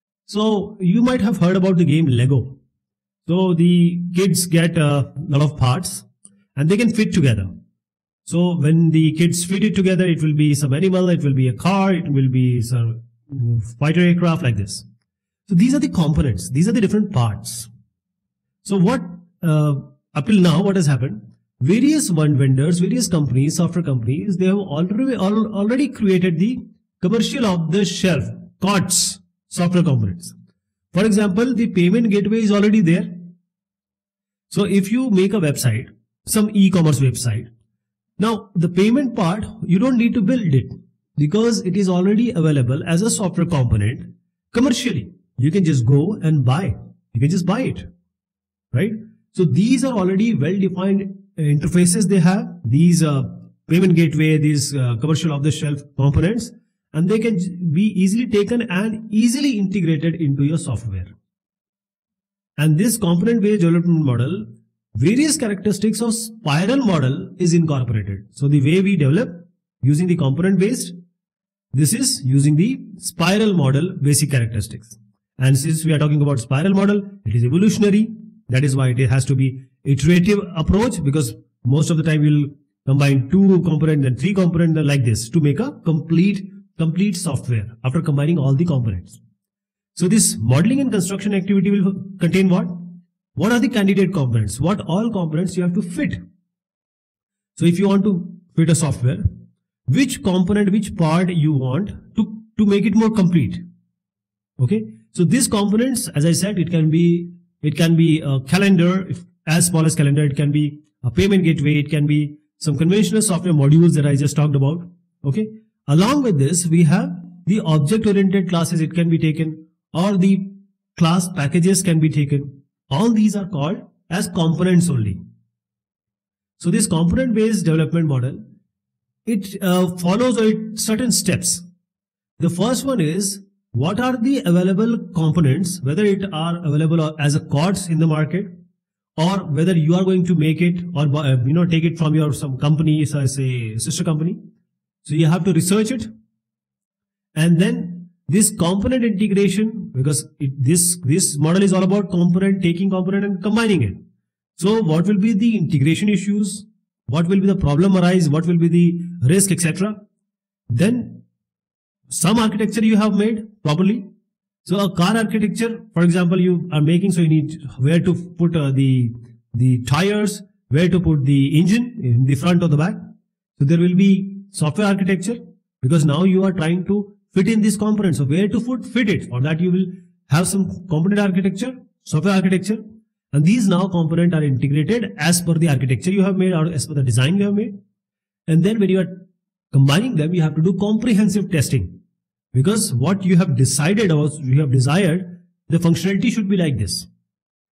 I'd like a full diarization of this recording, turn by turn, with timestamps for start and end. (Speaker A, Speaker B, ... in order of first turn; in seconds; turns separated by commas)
Speaker A: 0.3-2.6, Speaker A: 3.3-7.5, Speaker A: 8.3-14.8, Speaker A: 15.5-17.7, Speaker A: 18.6-30.4, Speaker A: 30.9-33.3, Speaker A: 34.5-37.5, Speaker A: 38.2-47.9, Speaker A: 48.7-61.1, Speaker A: 62.6-71.0, Speaker A: 71.7-89.2, Speaker A: 90.0-96.2, Speaker A: 97.6-99.2, Speaker A: 99.9-103.6, Speaker A: 104.6-125.2, Speaker A: 126.6-128.4, Speaker A: 129.3-131.6, Speaker A: 132.4-138.5, Speaker A: 139.2-144.4, Speaker A: 145.1-146.1, Speaker A: 147.4-154.0, Speaker A: 154.6-160.0, Speaker A: 160.7-161.2, Speaker A: 162.1-164.1, Speaker A: 164.7-173.0, Speaker A: 173.6-187.7, Speaker A: 188.5-191.9, Speaker A: 192.5-197.1